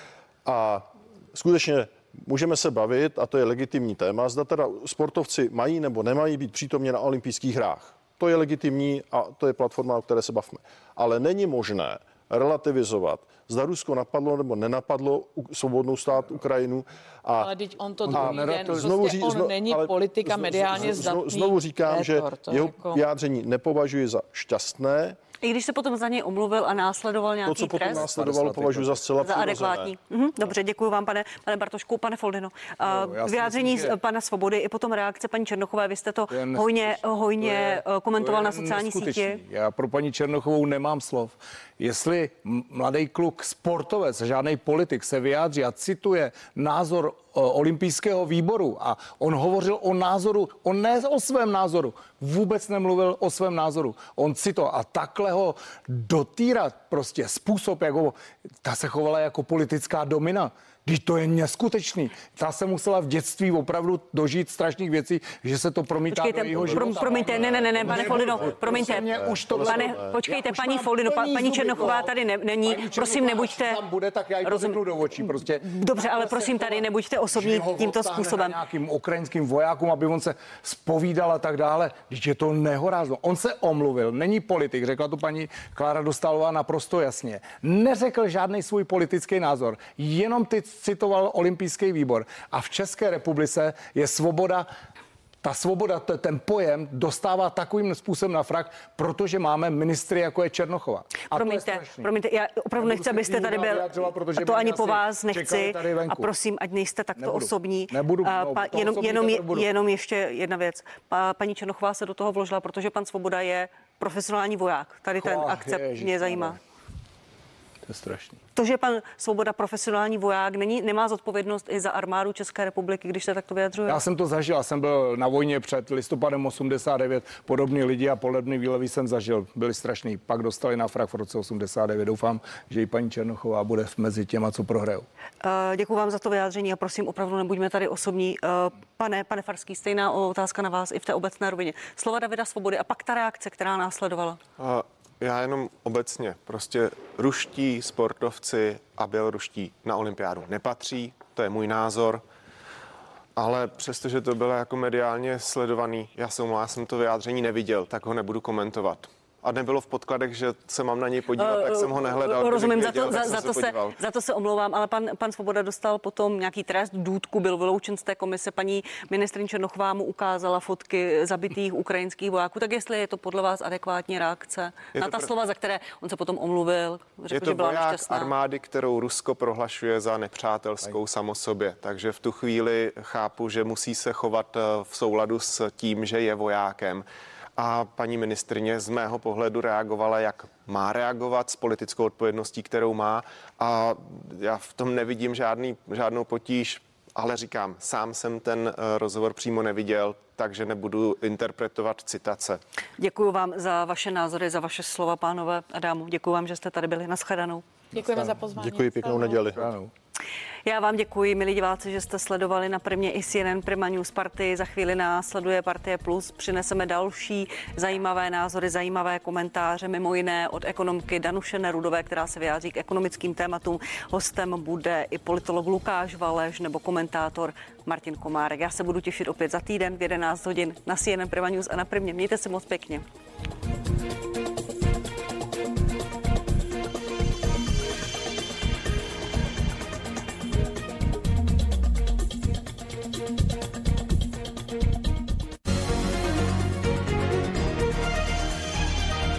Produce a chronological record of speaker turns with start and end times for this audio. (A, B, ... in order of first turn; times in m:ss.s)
0:00.4-0:17.5 A
0:17.4-0:23.0 B
0:18.1-0:18.9 C
0:18.1-0:25.2 A
0:25.4-0:28.0 D
0:27.4-0:29.9 A
0:27.8-0:29.1 C
0:29.2-0:39.4 D
0:32.8-0:34.0 C
0:36.3-1:34.7 C
1:06.1-1:13.8 D
1:06.6-1:10.2 A
1:14.4-1:18.6 D
1:35.4-1:42.1 C
1:41.3-1:56.6 D
1:42.8-1:46.3 C
1:47.2-1:49.7 C
1:55.2-1:56.6 C
1:57.8-1:58.4 C
1:58.5-2:04.0 D
2:03.9-2:15.0 C
2:15.4-2:24.4 D
2:24.6-2:32.2 E
2:33.4-2:44.0 E
2:41.4-2:58.3 D
2:54.9-2:55.3 E
2:57.3-3:07.0 E
3:07.6-3:22.6 E
3:23.0-3:27.6 D
3:27.9-3:29.4 B
3:28.1-3:28.4 C
3:28.6-3:29.7 A
3:29.6-3:29.9 C
3:30.6-3:53.0 D